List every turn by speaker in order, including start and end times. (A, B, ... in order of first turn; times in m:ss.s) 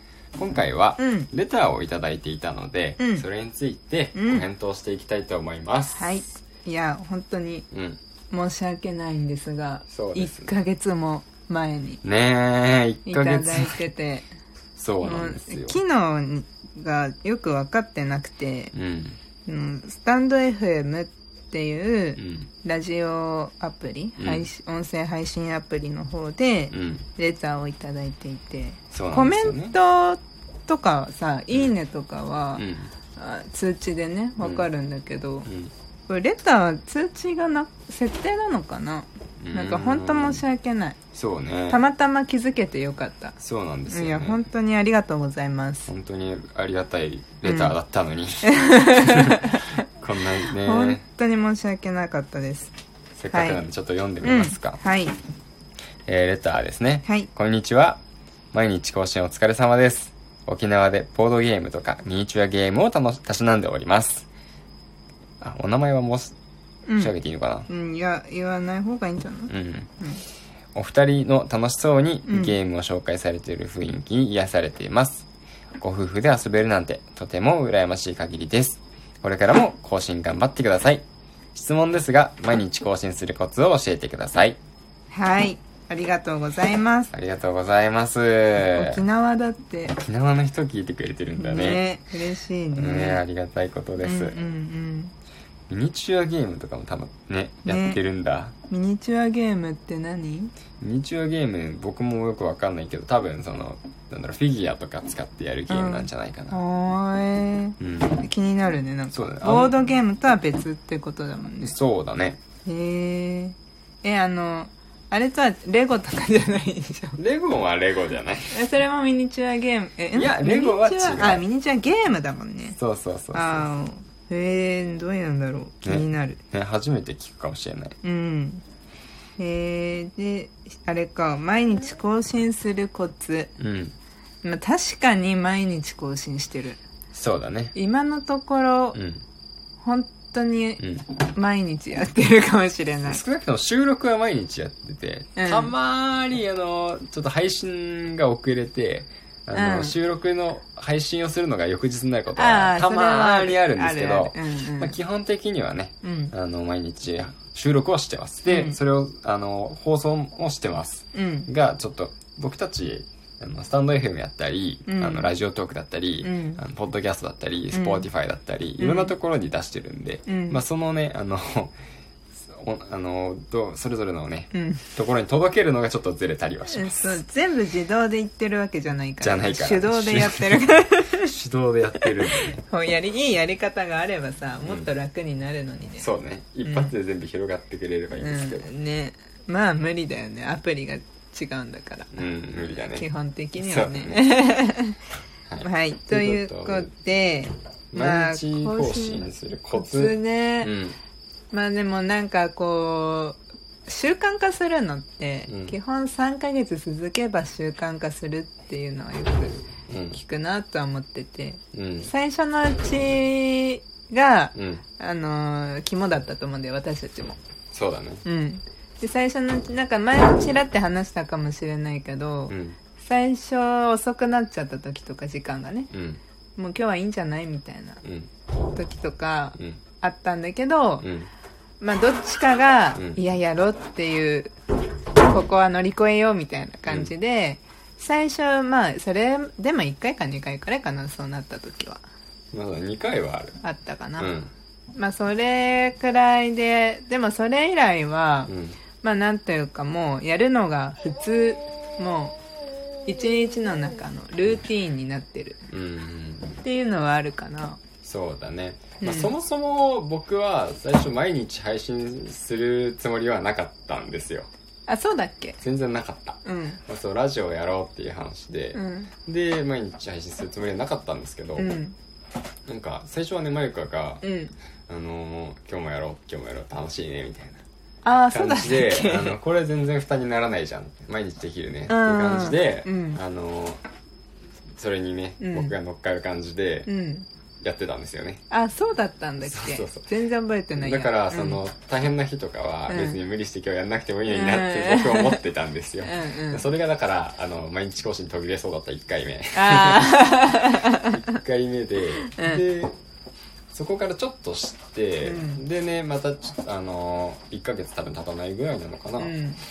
0:00.4-0:06.2 A
0:01.0-0:01.3 B
0:03.0-0:03.2 B
0:04.2-0:04.4 B
0:06.0-0:07.7 B
0:07.7-0:08.0 A
0:08.3-0:12.0 B
0:09.9-0:10.5 A
0:12.0-0:13.8 A
0:13.1-0:14.3 B
0:14.8-0:15.8 A
0:15.0-0:18.7 B
0:18.7-0:19.2 A
0:19.5-0:32.6 B
0:22.2-0:22.5 A
0:24.2-0:24.5 A
0:26.7-0:27.1 A
0:28.9-0:29.8 A
0:32.6-0:32.9 A
0:33.2-0:35.5 B
0:34.4-0:34.7 A
0:35.5-0:35.7 A
0:36.1-0:41.0 B
0:39.4-0:40.4 A
0:41.1-0:41.8 A
0:41.7-0:43.4 B
0:43.4-0:44.5 A
0:43.9-0:45.9 B
0:45.9-0:49.4 A
0:47.4-0:47.7 B
0:48.4-0:49.8 B
0:50.0-0:51.0 A
0:50.5-0:52.7 B
0:53.2-0:54.8 A
0:53.3-0:53.6 B
0:54.2-0:55.2 B
0:56.1-0:58.0 A
0:58.5-1:04.3 A
1:05.4-1:06.4 A
1:06.9-1:07.1 B
1:07.0-1:07.7 A
1:07.7-1:10.2 B
1:09.5-1:09.9 A
1:10.8-1:15.3 A
1:12.3-1:12.6 B
1:15.8-1:24.6 A
1:25.1-1:27.1 B
1:27.1-1:29.0 A
1:28.6-1:30.0 B
1:29.9-1:31.9 A
1:31.4-1:33.2 B
1:32.8-1:34.4 A
1:34.0-1:35.1 B
1:35.7-1:38.6 A
1:37.7-1:38.0 B
1:38.7-1:40.5 B
1:40.8-1:46.6 A
1:45.7-1:51.8 B
1:47.8-1:48.3 A
1:49.1-1:49.8 A
1:51.6-1:52.4 A
1:52.6-1:57.2 B
1:57.2-1:58.6 A
1:58.5-2:02.8 B
2:00.1-2:01.4 A
2:02.8-2:03.7 A
2:03.3-2:06.4 B
2:05.8-2:08.0 A
2:08.0-2:08.6 B
2:09.4-2:13.5 B
2:13.6-2:14.0 A
2:14.4-2:16.8 B
2:17.1-2:17.8 A
2:17.7-2:19.0 B
2:18.9-2:19.2 A
2:19.8-2:23.2 B
2:20.8-2:21.1 A
2:23.1-2:51.8 A
2:25.4-2:25.7 B
2:29.5-2:30.0 B
2:32.3-2:35.0 B
2:36.0-2:36.3 B
2:38.5-2:38.8 B
2:41.1-2:41.5 B
2:44.9-2:45.3 B
2:46.2-2:46.6 B
2:47.7-2:48.1 B
2:48.8-2:49.1 B
2:50.3-2:50.6 B
2:52.4-2:57.2 A
2:54.5-2:54.9 B
2:56.7-3:01.3 B
2:59.2-3:02.6 A
3:02.3-3:06.1 B
3:04.6-3:04.9 A
3:06.0-3:08.7 A
3:06.6-3:06.9 B
3:08.2-3:15.0 B
3:12.1-3:13.1 A
3:13.6-3:14.2 A
3:15.5-3:16.9 A
3:15.6-3:20.7 B
3:17.9-3:21.0 A
3:21.5-3:37.4 B
3:25.5-3:25.8 A
3:29.9-3:30.2 A
3:31.7-3:32.1 A
3:34.6-3:34.8 A
3:37.7-3:38.2 A
3:38.2-3:45.9 B
3:42.5-3:42.8 A
3:45.9-3:46.2 A
3:46.6-3:48.0 B
3:48.0-3:48.3 A
3:48.7-3:51.1 B
3:49.6-3:49.8 A
3:51.0-3:51.3 A
3:51.8-3:54.5 B
3:55.2-4:02.0 B
3:56.9-3:57.1 A
4:02.5-4:03.6 A
4:03.6-4:04.3 B
4:04.2-4:04.5 A
4:05.0-4:12.4 B
4:08.5-4:08.8 A
4:13.1-4:15.6 B
4:15.7-4:16.6 A
4:16.6-4:17.8 B
4:18.0-4:24.5 A
4:19.0-4:19.3 B
4:24.9-4:25.6 B
4:25.6-4:31.8 A
4:26.4-4:26.8 B
4:28.7-4:29.1 B
4:31.6-4:32.0 B
4:32.7-4:34.2 A
4:34.2-4:34.5 B
4:34.9-4:37.6 A
4:38.0-4:39.4 B
4:38.3-4:43.8 A
4:41.9-4:43.2 B
4:44.8-4:46.9 A
4:45.4-4:45.8 B
4:46.9-4:47.3 B
4:47.6-4:48.4 A
4:48.5-4:51.6 B
4:49.4-4:50.0 A
4:50.8-5:00.2 A
4:52.9-4:53.2 B
4:54.3-4:55.4 B
4:56.0-4:56.7 B
4:59.5-5:01.3 B
5:00.9-5:02.9 A
5:02.3-5:02.6 B
5:03.7-5:09.3 A
5:05.2-5:05.6 B
5:09.2-5:09.6 B